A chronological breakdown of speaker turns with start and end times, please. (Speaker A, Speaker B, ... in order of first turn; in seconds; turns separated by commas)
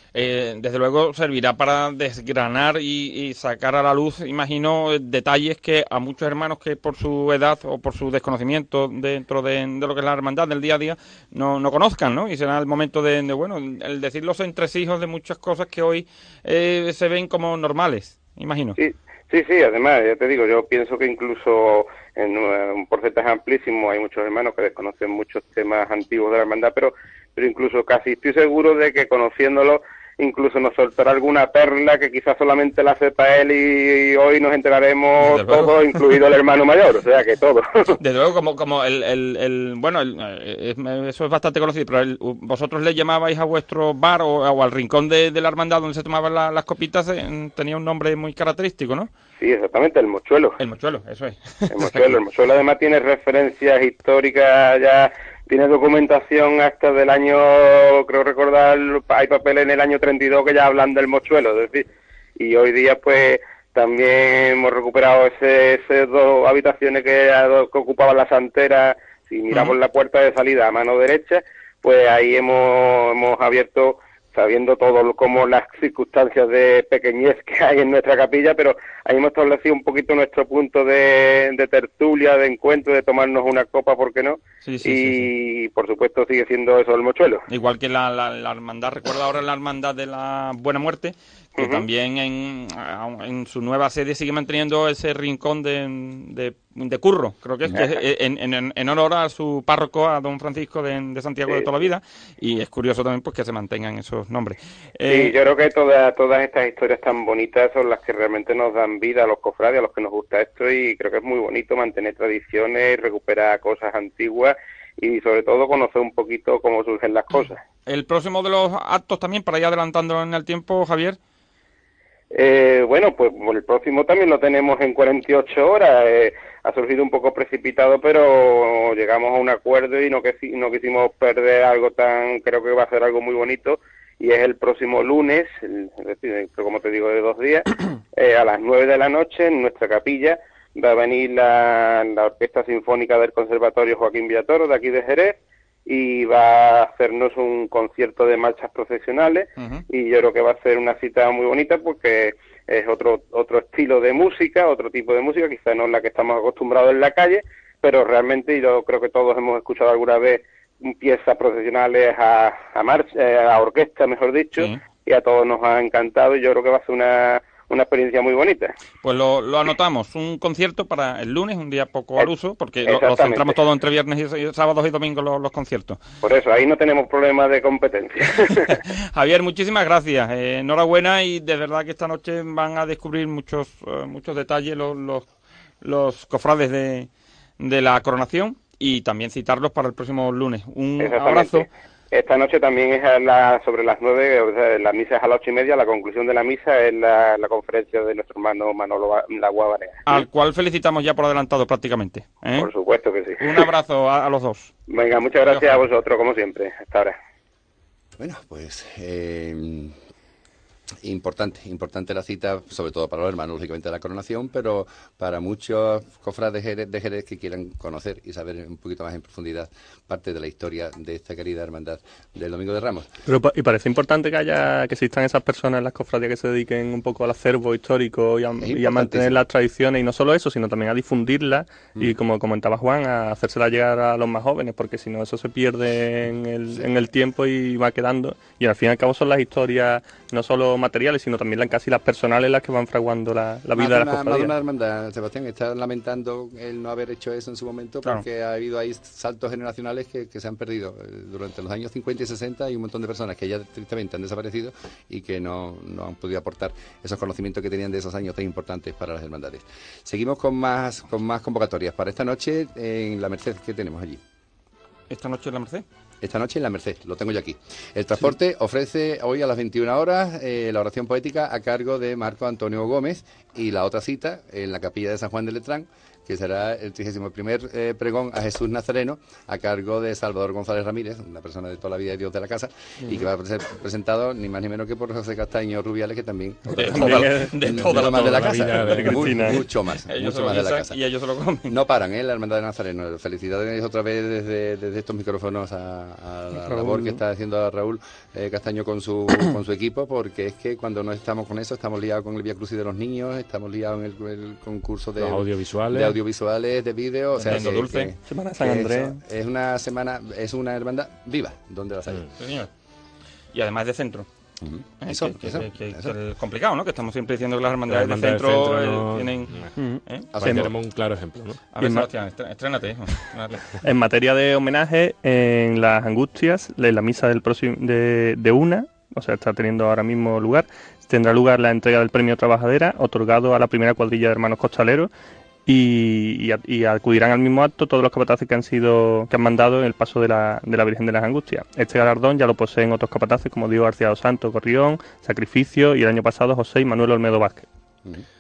Speaker A: 0.1-18.8, Speaker B: 18.8-38.0, Speaker A: 35.2-36.0, Speaker A: 38.0-49.1, Speaker B: 49.4-50.6, Speaker A: 50.6-52.2, Speaker B: 51.7-61.9, Speaker B: 62.4-87.4, Speaker A: 84.6-85.3, Speaker A: 87.5-105.3, Speaker B: 91.6-91.9, Speaker B: 97.7-98.0, Speaker B: 105.1-117.6, Speaker A: 117.9-121.2, Speaker B: 122.3-168.8, Speaker A: 169.0-176.0, Speaker B: 172.8-173.6, Speaker B: 176.2-178.8, Speaker A: 178.7-185.3, Speaker A: 185.8-191.7, Speaker B: 191.0-200.2, Speaker A: 200.1-202.7, Speaker B: 202.6-203.7, Speaker A: 203.4-204.7, Speaker B: 204.9-207.2, Speaker A: 205.4-205.8, Speaker C: 208.2-210.0, Speaker C: 211.0-223.1, Speaker D: 223.3-244.5, Speaker C: 228.6-229.4, Speaker C: 243.8-264.2, Speaker A: 265.1-265.9, Speaker C: 266.2-291.0, Speaker A: 286.7-288.7, Speaker D: 286.9-287.5, Speaker E: 287.8-289.5, Speaker D: 288.8-289.6, Speaker A: 290.1-291.8, Speaker C: 291.7-312.3, Speaker D: 296.7-297.2, Speaker E: 305.2-306.2, Speaker A: 307.4-308.1, Speaker D: 308.2-309.2, Speaker A: 312.4-312.7, Speaker A: 313.5-314.3, Speaker C: 314.6-316.1, Speaker A: 315.0-320.3, Speaker E: 317.9-319.7, Speaker D: 319.8-320.7, Speaker C: 320.4-320.7, Speaker E: 320.4-321.6, Speaker A: 321.7-323.6, Speaker D: 321.8-322.1, Speaker D: 323.8-335.1, Speaker D: 335.7-347.7